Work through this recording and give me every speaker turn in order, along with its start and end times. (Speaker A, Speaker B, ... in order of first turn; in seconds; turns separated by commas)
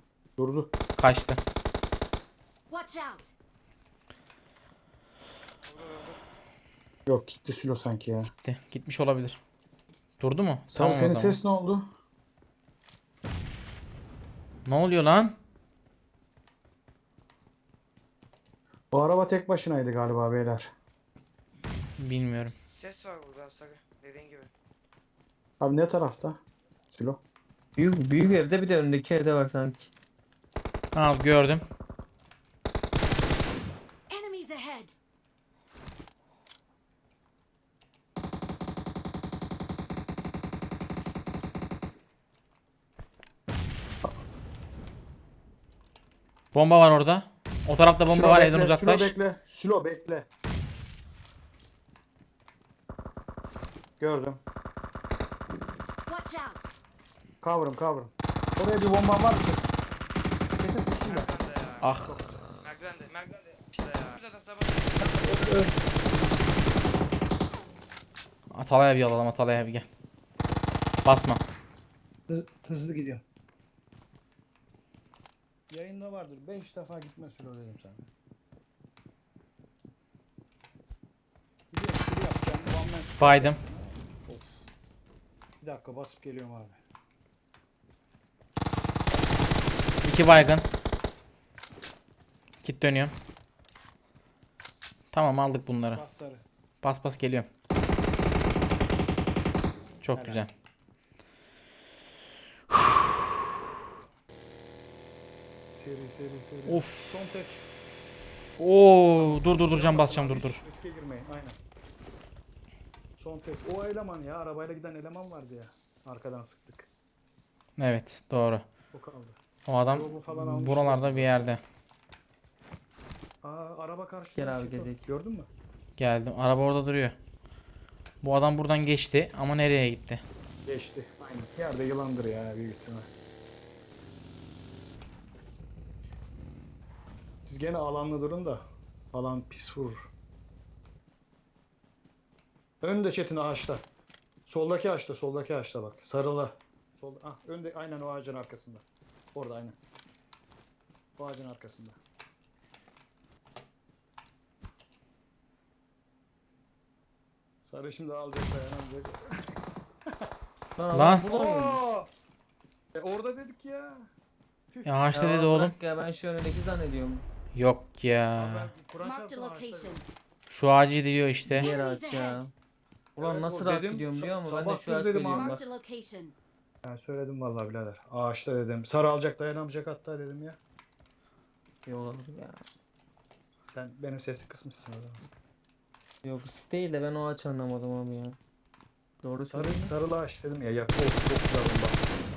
Speaker A: 0.4-0.7, Speaker B: 1.0-1.4, Speaker C: 2.7-3.3, Speaker D: 5.7-6.2, Speaker A: 7.0-8.3, Speaker B: 8.4-9.4, Speaker B: 10.2-11.4, Speaker A: 10.7-11.9, Speaker B: 14.7-15.3, Speaker A: 18.9-20.7, Speaker B: 22.0-22.5, Speaker D: 22.7-24.5, Speaker A: 25.6-26.4, Speaker A: 26.9-27.2, Speaker E: 27.8-29.9, Speaker B: 30.9-31.6, Speaker C: 34.1-35.0, Speaker B: 46.5-49.1, Speaker A: 48.0-50.3, Speaker A: 54.0-54.4, Speaker C: 56.1-56.7, Speaker A: 57.4-59.6, Speaker A: 60.6-61.3, Speaker D: 61.0-61.9, Speaker B: 61.8-62.1, Speaker A: 62.0-62.4, Speaker D: 62.6-65.7, Speaker A: 65.0-65.7, Speaker B: 68.5-69.8, Speaker B: 71.0-71.4, Speaker A: 72.3-73.2, Speaker A: 75.7-78.1, Speaker A: 81.7-84.7, Speaker B: 83.2-83.6, Speaker A: 85.6-86.8, Speaker B: 90.0-90.7, Speaker B: 92.6-93.1, Speaker B: 95.1-96.0, Speaker A: 95.9-96.4, Speaker B: 96.8-97.5, Speaker B: 100.0-100.5, Speaker A: 100.2-100.5, Speaker A: 105.8-107.7, Speaker B: 106.7-107.2, Speaker B: 108.5-110.6, Speaker A: 109.1-111.6, Speaker A: 113.2-116.9, Speaker B: 117.8-118.6, Speaker A: 118.9-121.5, Speaker B: 119.7-121.6, Speaker A: 123.4-125.5, Speaker E: 124.3-125.0, Speaker B: 126.0-127.1, Speaker B: 128.2-130.2, Speaker A: 130.6-133.1, Speaker A: 137.4-140.1, Speaker A: 142.8-143.8, Speaker A: 144.4-149.8, Speaker A: 151.2-152.0, Speaker A: 157.6-159.5, Speaker E: 160.8-161.8, Speaker B: 160.9-161.3, Speaker A: 161.2-162.1, Speaker A: 162.9-164.1, Speaker A: 164.7-165.0, Speaker B: 164.8-165.7, Speaker E: 165.1-167.2, Speaker B: 167.5-168.7, Speaker A: 168.3-170.0, Speaker C: 169.0-170.0, Speaker B: 170.5-171.7, Speaker E: 171.5-172.5, Speaker C: 171.6-172.4, Speaker E: 173.2-175.7, Speaker A: 173.2-175.5, Speaker C: 175.3-176.3, Speaker A: 176.8-180.6, Speaker E: 181.8-182.6, Speaker A: 183.7-185.2, Speaker E: 186.2-188.4, Speaker E: 189.2-189.9, Speaker A: 189.5-192.0